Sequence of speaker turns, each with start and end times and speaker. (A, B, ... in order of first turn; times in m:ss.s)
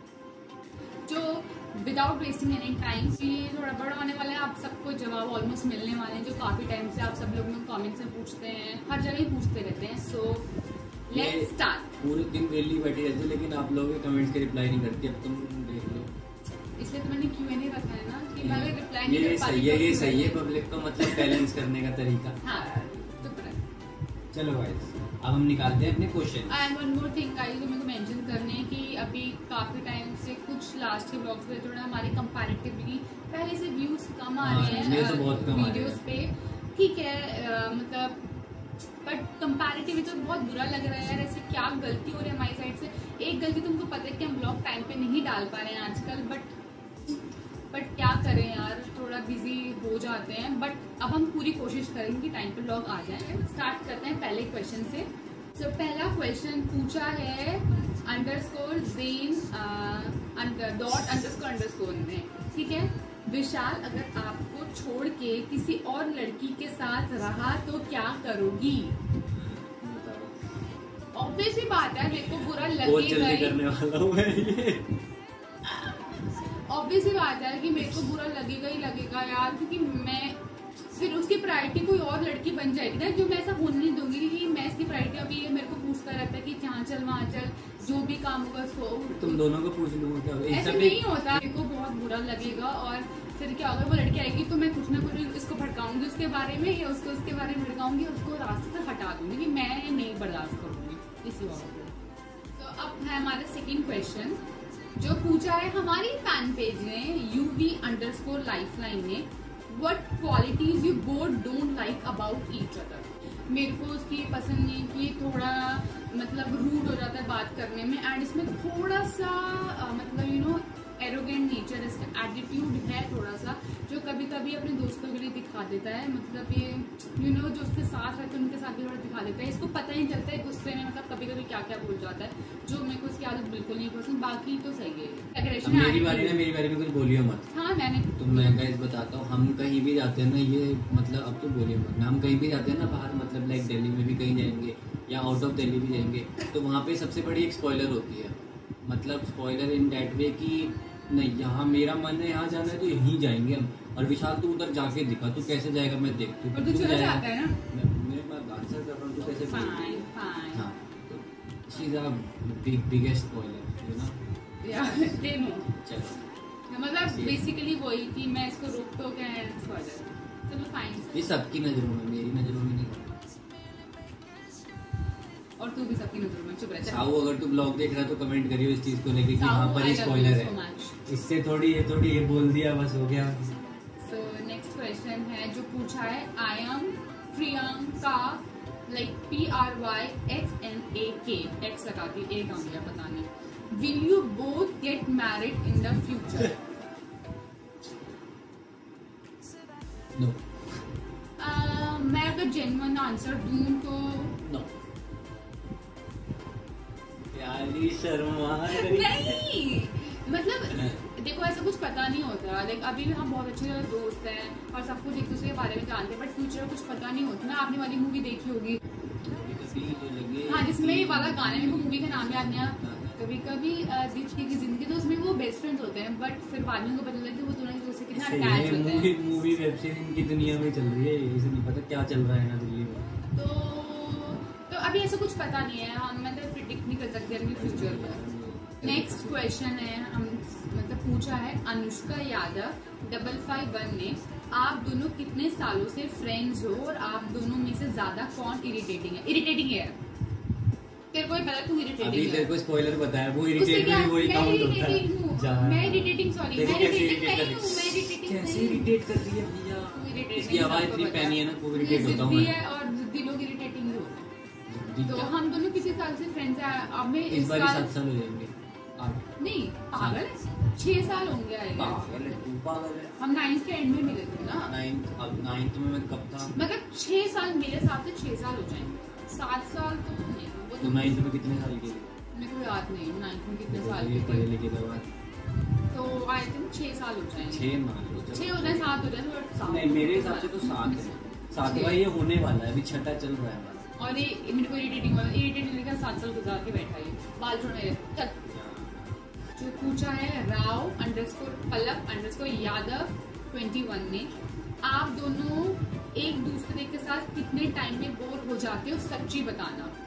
0:01.0-0:10.5 A
0:11.1-0:11.9 A
0:11.1-0:16.1 B
0:16.8-0:21.4 A
0:18.3-0:22.4 B
0:22.4-0:23.6 A
0:24.3-0:26.6 B
0:26.5-0:38.2 A
0:34.4-0:36.0 B
0:39.0-0:46.6 A
0:47.7-1:09.0 A
1:09.3-1:10.5 B
1:11.1-1:13.6 A
1:12.1-1:14.9 B
1:15.6-1:20.4 A
1:20.9-1:29.4 A
1:29.2-1:31.3 B
1:30.5-1:41.9 A
1:42.6-1:44.4 A
1:44.9-2:16.4 A
2:15.6-2:17.5 B
2:17.5-2:18.6 A
2:18.2-2:44.2 B
2:36.5-2:37.6 A
2:39.2-2:40.7 A
2:44.6-2:45.8 A
2:44.7-2:45.2 B
2:45.8-2:46.2 B
2:46.7-2:51.3 A
2:47.0-2:47.4 B
2:51.1-2:53.2 B
2:55.6-2:57.0 A
2:56.8-3:00.5 B
2:59.4-3:01.0 A
3:01.0-3:03.5 B
3:04.0-3:16.6 A
3:20.1-3:20.4 B
3:21.4-3:24.4 A
3:24.4-3:24.8 B
3:27.3-3:29.4 B
3:28.6-3:38.8 A
3:30.7-3:31.0 B
3:39.2-3:43.2 B
3:40.4-3:49.1 A
3:48.1-3:53.1 B
3:53.3-3:58.2 A
3:57.5-3:59.5 B
3:58.8-4:10.0 A
4:11.1-4:12.5 A
4:12.0-4:22.5 B
4:13.6-4:18.9 A
4:19.9-4:24.3 A
4:24.7-4:25.4 B
4:25.0-4:27.9 A
4:27.3-4:29.2 B
4:29.4-4:32.4 A
4:29.9-4:30.3 B
4:31.7-4:33.2 B
4:33.2-4:34.7 A
4:34.5-4:36.5 B
4:36.5-4:41.2 A
4:40.8-4:42.1 B
4:42.3-4:44.5 A
4:43.7-4:45.1 B
4:45.9-4:47.7 A
4:47.4-4:48.9 B
4:48.3-4:51.0 A
4:49.6-4:53.9 B
4:51.6-4:52.0 A
4:54.0-4:58.4 A
4:58.5-4:59.2 B
4:59.6-5:04.3 A
5:04.8-5:09.9 A